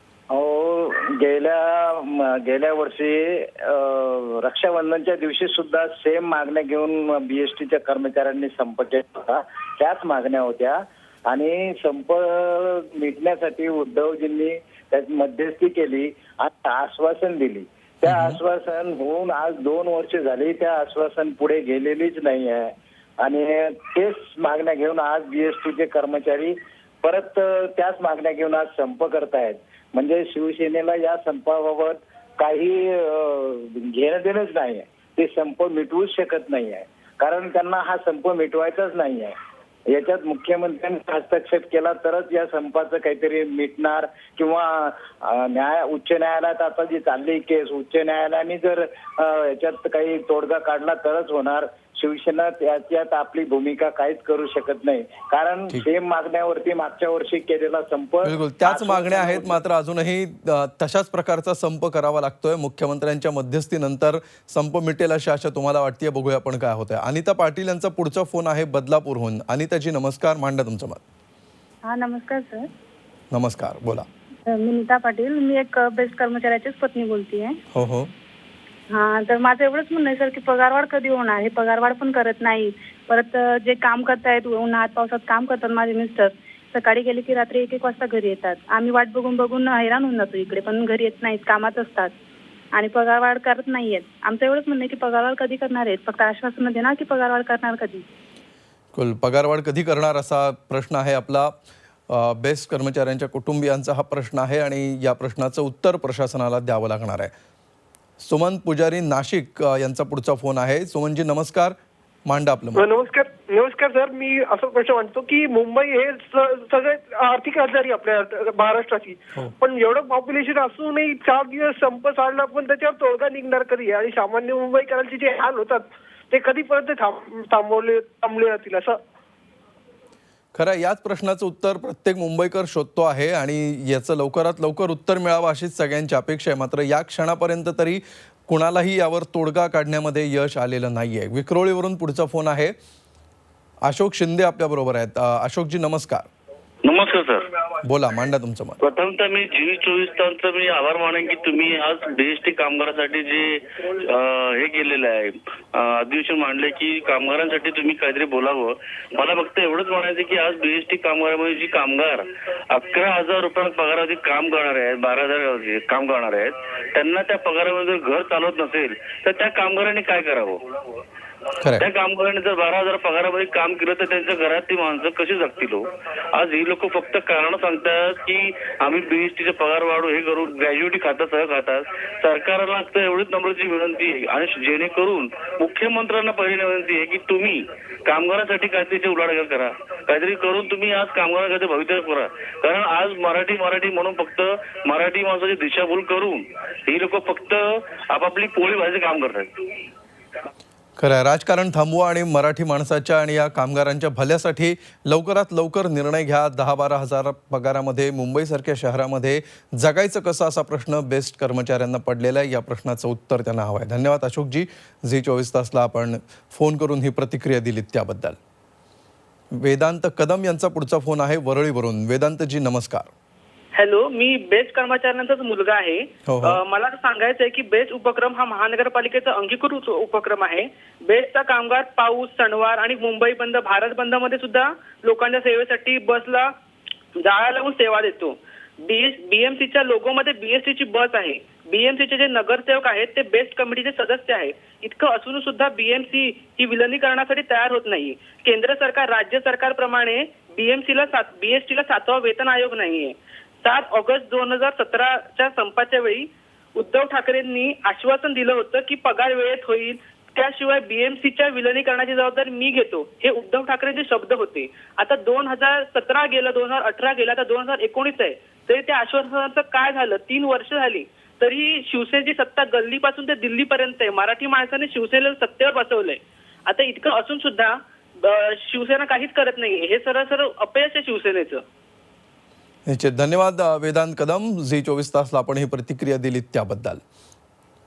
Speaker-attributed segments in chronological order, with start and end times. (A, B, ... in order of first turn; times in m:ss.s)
0:00.3-0:39.3 A
0:18.1-0:18.4 B
0:39.9-0:59.6 A
0:58.2-1:11.0 B
1:11.9-1:12.7 C
1:13.3-1:14.1 B
1:14.5-1:17.6 C
1:17.7-1:18.1 B
1:18.9-1:32.1 C
1:32.7-1:38.0 C
1:38.9-1:41.5 B
1:42.1-1:47.3 B
1:48.2-1:52.9 B
1:52.8-2:09.0 D
2:10.6-2:22.8 B
2:23.8-2:26.3 B
2:26.8-2:27.5 E
2:27.8-2:28.8 B
2:28.8-2:50.6 E
2:51.8-3:19.5 E
3:21.0-3:38.4 B
3:39.5-3:43.1 B
3:43.8-3:56.5 F
3:46.3-3:46.6 B
3:57.2-4:41.6 F
4:42.9-4:47.0 B